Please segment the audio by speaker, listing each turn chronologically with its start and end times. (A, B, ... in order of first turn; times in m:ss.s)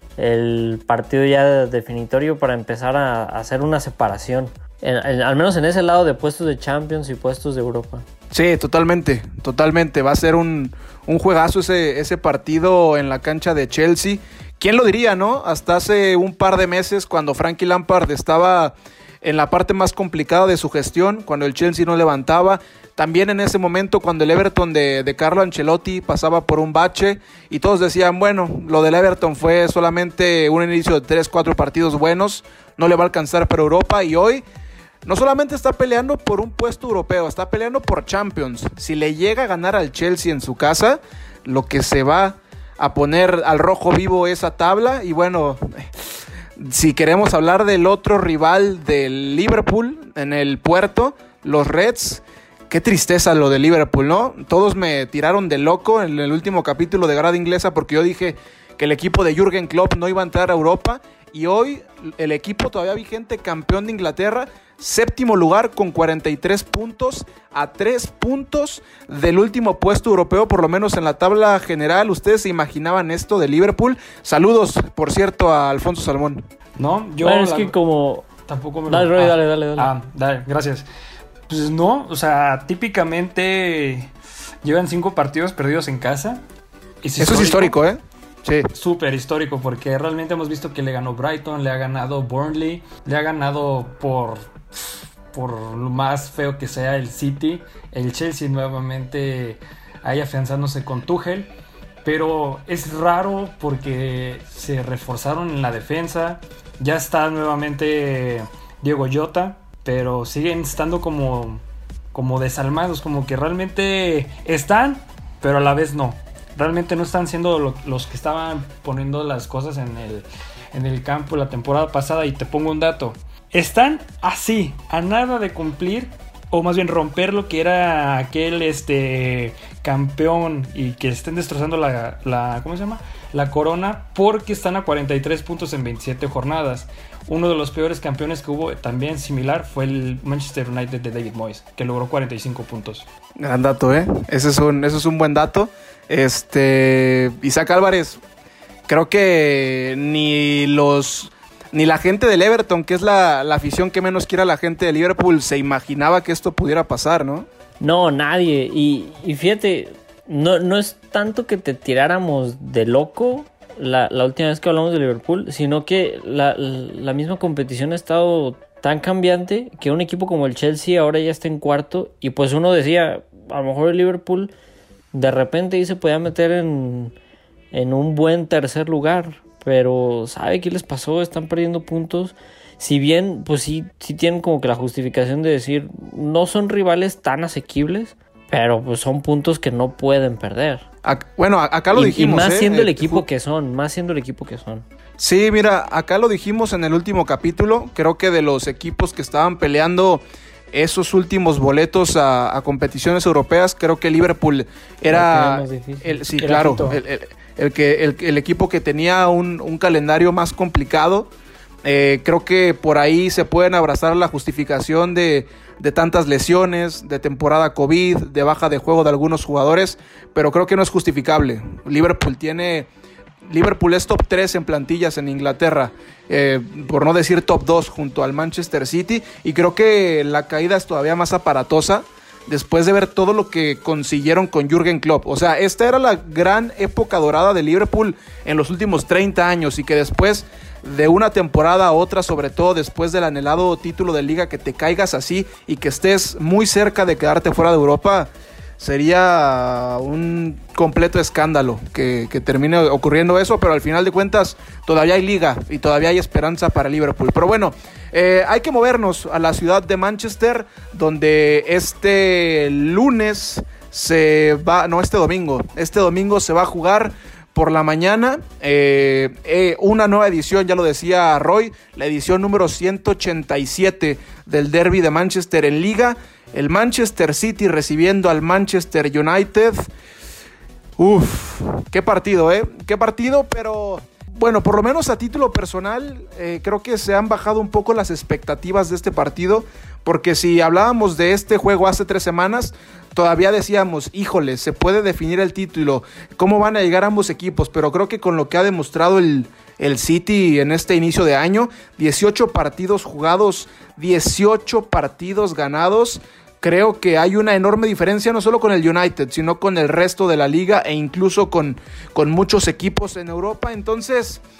0:00.2-0:08.0 A
0:08.3-0:34.4 B
0:35.0-0:45.9 B
0:46.6-1:16.5 B
1:16.7-1:17.7 C
1:17.2-1:18.3 A
1:18.5-1:20.8 C
1:18.9-1:19.9 A
1:21.5-1:24.1 C
1:24.6-1:26.4 C
1:27.0-1:27.8 C
1:27.2-1:28.7 B
1:28.7-1:41.5 C
1:42.0-1:51.6 C
1:52.1-2:23.1 C
2:23.4-2:28.2 B
2:28.9-2:37.5 B
2:37.8-2:54.5 A
2:55.1-2:57.1 A
2:57.7-3:10.9 A
3:11.0-3:13.2 B
3:11.9-3:14.8 A
3:15.2-3:31.3 B
3:25.1-3:26.2 A
3:26.3-3:27.0 C
3:31.8-3:42.9 B
3:43.4-4:39.9 B
4:41.0-5:14.4 B